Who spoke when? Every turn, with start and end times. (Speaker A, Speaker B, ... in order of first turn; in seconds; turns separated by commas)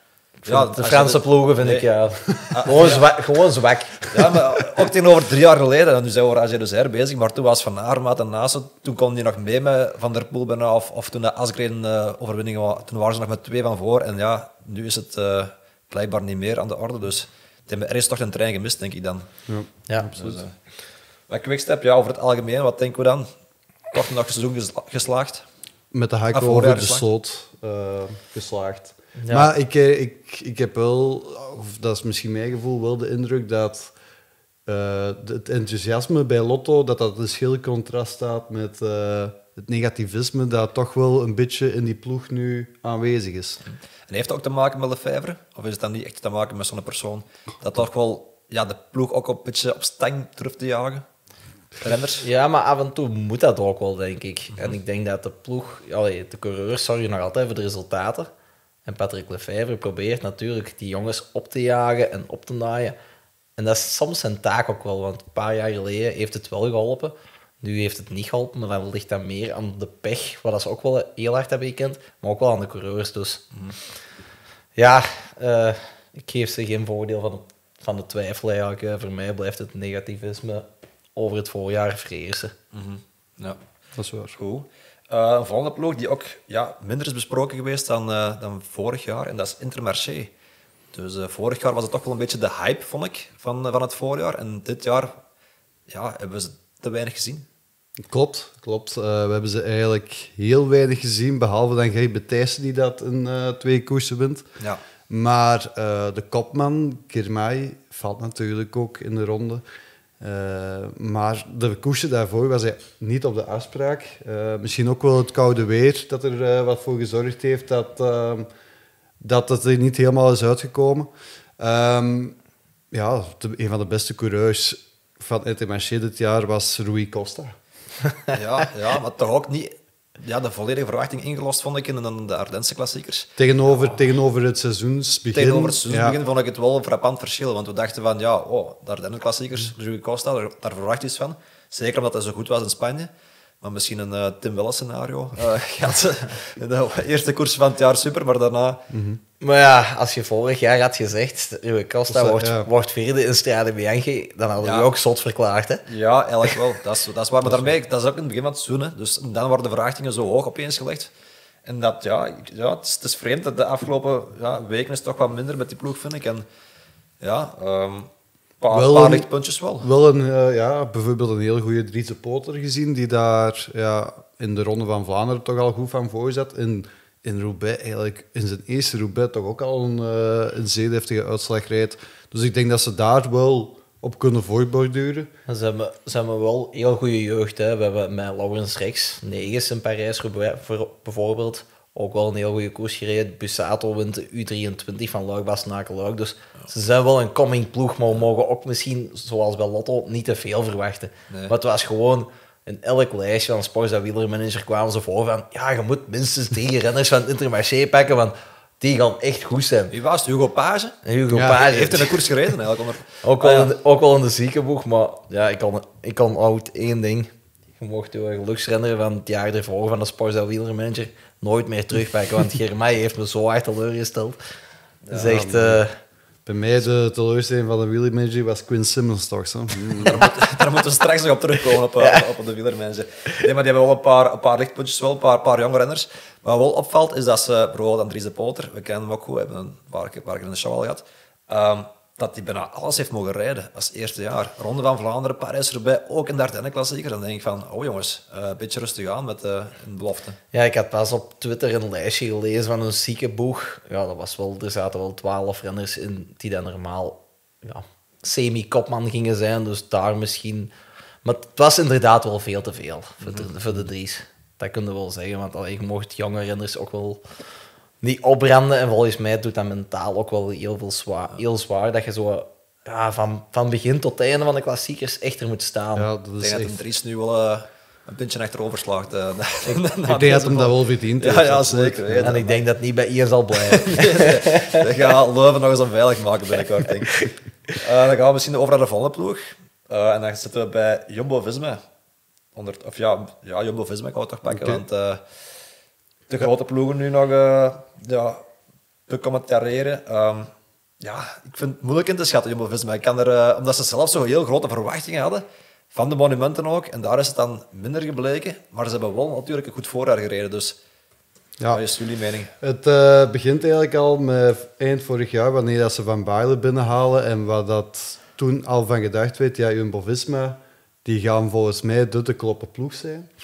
Speaker A: 0.4-4.3, Speaker B: 0.5-3.1, Speaker B: 4.1-19.3, Speaker C: 19.5-20.4, Speaker B: 20.1-20.6, Speaker B: 21.3-23.3, Speaker B: 23.9-25.4, Speaker C: 25.9-33.9, Speaker B: 26.3-27.0, Speaker A: 29.2-29.5, Speaker C: 34.6-43.6, Speaker B: 43.6-51.0, Speaker B: 51.8-52.2, Speaker A: 52.2-58.3, Speaker A: 58.8-63.0, Speaker A: 63.6-73.5, Speaker A: 74.8-82.5, Speaker B: 82.7-83.6, Speaker C: 83.9-84.3, Speaker B: 84.3-90.3, Speaker B: 90.9-95.2, Speaker B: 95.9-97.5, Speaker C: 98.0-104.5, Speaker C: 105.1-109.6, Speaker C: 110.2-118.5, Speaker C: 119.2-122.4, Speaker C: 122.9-127.5, Speaker B: 128.3-133.3, Speaker C: 133.4-136.2, Speaker B: 135.3-143.1, Speaker B: 143.6-148.9, Speaker C: 148.9-149.2, Speaker A: 149.4-155.9, Speaker C: 152.1-152.7, Speaker B: 154.6-154.9, Speaker B: 155.9-161.1, Speaker B: 161.6-166.4, Speaker B: 167.2-169.9, Speaker C: 168.7-169.3, Speaker C: 169.8-185.3, Speaker A: 185.5-209.9, Speaker B: 209.9-213.7, Speaker A: 211.0-212.3, Speaker C: 211.3-211.6, Speaker A: 213.2-224.4, Speaker B: 225.0-225.3, Speaker A: 225.1-226.0, Speaker C: 225.2-225.8, Speaker C: 226.4-230.2, Speaker B: 230.0-250.4, Speaker A: 232.0-232.2, Speaker A: 250.5-267.2, Speaker B: 263.2-263.5, Speaker A: 268.0-276.1, Speaker C: 275.9-276.8, Speaker B: 276.4-282.6, Speaker C: 280.1-282.4, Speaker A: 282.2-284.9, Speaker B: 283.6-287.1, Speaker A: 286.8-287.3, Speaker B: 287.8-291.8, Speaker B: 292.5-295.2, Speaker C: 294.5-294.8, Speaker B: 296.3-298.4, Speaker B: 299.1-310.8, Speaker B: 311.7-312.5, Speaker C: 312.6-323.3